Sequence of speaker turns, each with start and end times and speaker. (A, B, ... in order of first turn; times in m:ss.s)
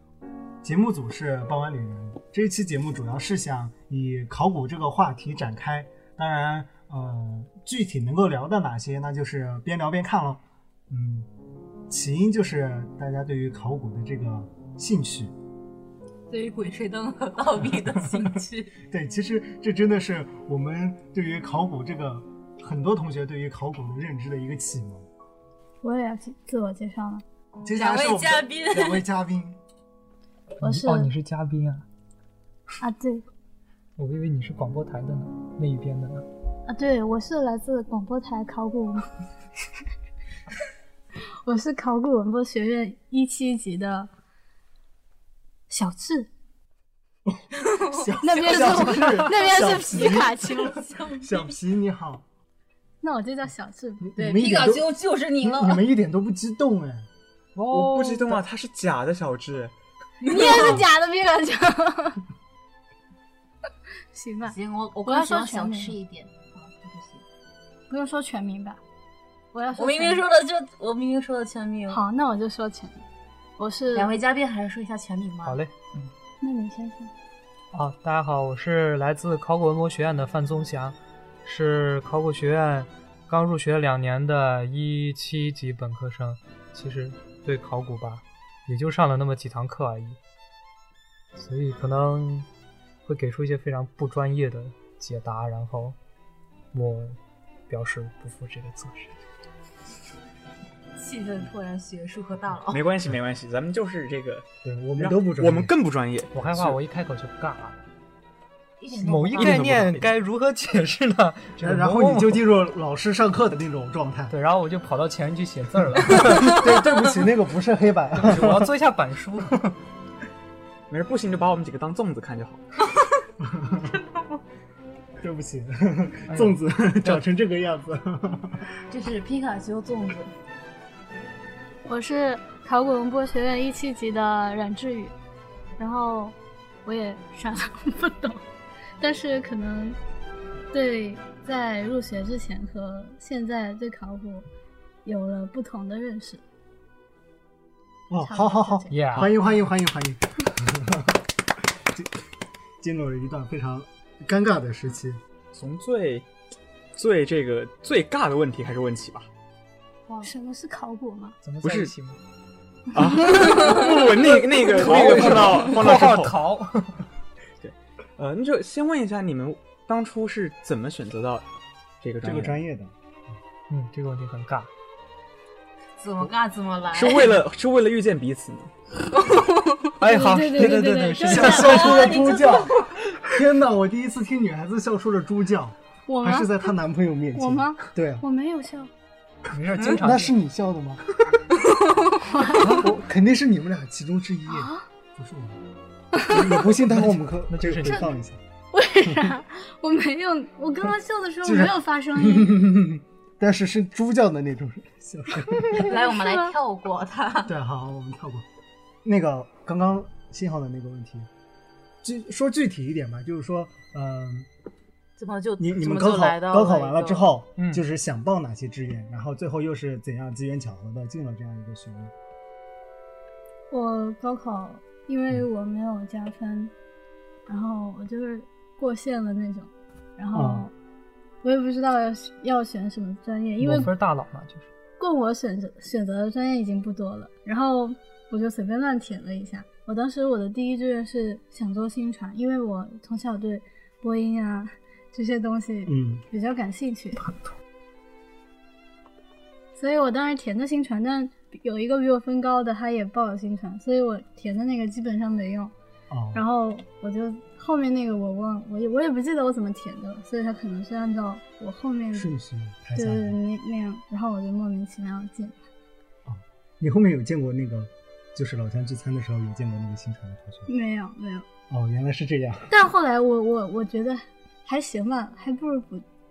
0:00.6-0:11.3 A
0:11.9-0:15.3 A
0:16.3-0:18.8 B
0:18.8-0:25.1 A
0:25.8-0:27.2 C
0:27.6-0:29.6 A
0:27.7-0:29.0 B
0:30.6-0:31.8 D
0:30.6-0:31.1 C
0:32.8-0:33.3 C
0:34.0-0:36.3 D
0:36.7-0:39.1 C
0:41.4-0:44.1 C
0:45.7-0:46.3 C
0:47.6-0:51.5 B
0:47.9-0:52.2 A
0:48.2-0:51.2 C
0:48.6-0:49.1 E
0:53.0-0:54.1 C
0:54.0-0:57.1 A
0:54.2-0:55.8 B
0:57.6-0:58.4 D
0:57.7-0:59.8 E
1:00.2-1:00.8 B
1:00.3-1:02.2 C
1:04.1-1:06.0 C
1:04.4-1:07.2 B
1:07.9-1:08.8 C
1:09.5-1:10.2 C
1:09.8-1:12.0 B
1:11.9-1:13.0 C
1:13.6-1:14.2 C
1:13.9-1:15.6 B
1:15.4-1:15.8 D
1:16.4-1:17.1 C
1:17.7-1:30.2 D
1:31.4-1:32.5 D
1:33.1-1:36.0 D
1:36.7-1:37.2 D
1:37.7-1:39.2 D
1:41.0-1:42.9 B
1:42.7-1:46.8 E
1:44.6-1:45.7 A
1:46.3-1:47.8 D
1:48.8-1:49.6 B
1:49.0-1:52.4 D
1:49.4-1:50.2 E
1:51.6-1:54.4 A
1:54.3-1:56.6 D
1:56.0-1:58.7 A
1:58.2-1:59.7 D
2:00.9-2:02.6 E
2:03.4-2:03.9 A
2:05.2-2:08.7 A
2:06.3-2:07.2 D
2:08.9-2:10.3 B
2:11.9-2:15.2 C
2:15.8-2:18.4 C
2:19.0-2:20.0 C
2:20.7-2:24.5 C
2:25.0-2:26.4 C
2:28.1-2:32.1 A
2:28.2-2:29.0 C
2:28.9-2:29.3 D
2:32.8-2:35.2 A
2:35.5-2:36.3 E
2:36.9-2:39.3 E
2:40.1-2:40.3 B
2:40.2-2:41.4 C
2:41.4-2:42.2 D
2:41.6-2:41.9 E
2:42.9-2:46.4 E
2:43.0-2:44.2 C
2:43.4-2:44.1 B
2:44.6-2:45.7 A
2:44.9-2:47.0 D
2:47.6-2:51.5 E
2:52.0-2:52.6 E
2:52.2-2:52.9 A
2:53.7-2:54.7 D
2:56.0-2:57.4 B
2:56.9-2:58.7 E
2:59.1-2:59.9 B
3:00.0-3:02.0 D
3:00.0-3:02.5 C
3:00.6-3:08.2 A
3:01.3-3:02.8 B
3:06.1-3:06.5 C
3:07.4-3:08.9 C
3:09.5-3:10.4 D
3:09.9-3:11.0 A
3:11.6-3:12.2 B
3:12.2-3:12.8 C
3:12.6-3:12.9 D
3:12.6-3:15.6 A
3:14.5-3:14.8 C
3:16.2-3:16.7 C
3:16.3-3:18.4 A
3:16.9-3:18.1 D
3:17.8-3:18.1 C
3:18.7-3:22.7 C
3:19.0-3:19.3 A
3:21.4-3:25.9 A
3:25.5-3:26.5 C
3:25.8-3:27.5 B
3:27.4-3:28.5 A
3:29.0-3:31.3 A
3:32.0-3:34.5 A
3:35.2-3:37.3 B
3:35.6-3:42.1 A
3:37.6-3:37.8 D
3:43.7-3:46.7 C
3:47.5-3:50.7 C
3:50.3-3:50.7 A
3:51.4-3:53.9 C
3:53.6-3:53.9 A
3:53.6-3:54.7 D
3:55.0-4:07.3 C
4:05.9-4:06.2 A
4:09.8-4:15.7 C
4:16.1-4:16.4 A
4:16.3-4:22.3 C
4:22.1-4:23.4 A
4:23.0-4:25.6 C
4:26.3-4:30.7 A
4:30.7-4:31.5 C
4:31.7-4:32.7 A
4:32.7-4:36.0 C